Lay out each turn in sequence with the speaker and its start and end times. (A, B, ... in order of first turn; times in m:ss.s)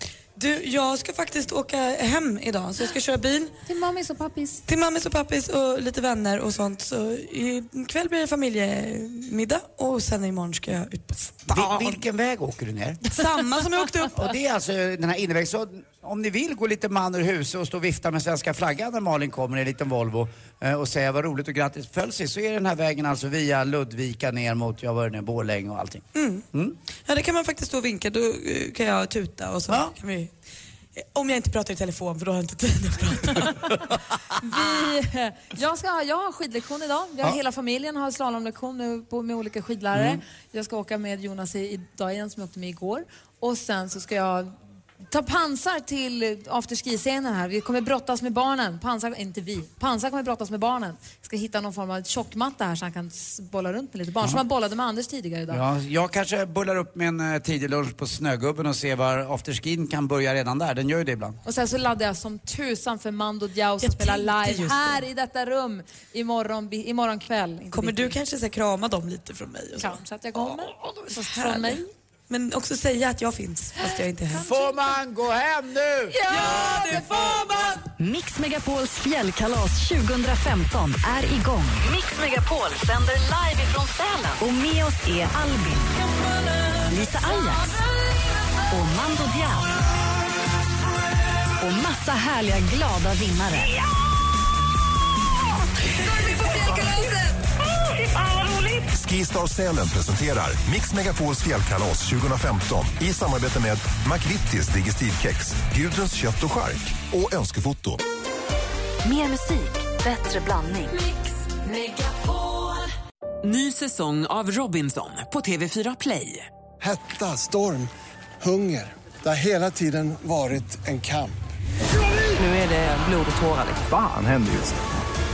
0:00.4-0:03.5 A
0:03.6-0:04.6 B
0:04.7-0:11.9 A
0:11.4-0:13.0 C
0:13.1-0:14.3 A
0:14.1-0:26.8 C
0:26.1-0:26.4 A
0:27.0-0:30.3 A
0:31.0-0:33.6 A
0:34.3-0:44.5 B
0:39.9-0:40.2 C
0:45.1-0:55.6 B
0:55.5-1:01.4 C
1:01.4-1:08.2 B
1:03.8-1:05.0 A
1:07.7-1:14.4 A
1:09.8-1:11.9 B
1:13.8-1:15.0 B
1:14.4-1:16.2 C
1:16.1-1:17.7 B
1:16.4-1:17.2 A
1:18.0-1:26.0 D
1:26.9-1:27.8 D
1:28.7-1:29.7 D
1:31.6-1:33.8 D
1:36.0-1:37.4 B
1:38.9-1:48.0 E
1:49.0-1:51.0 D
1:53.4-1:56.5 F
1:56.8-2:01.4 G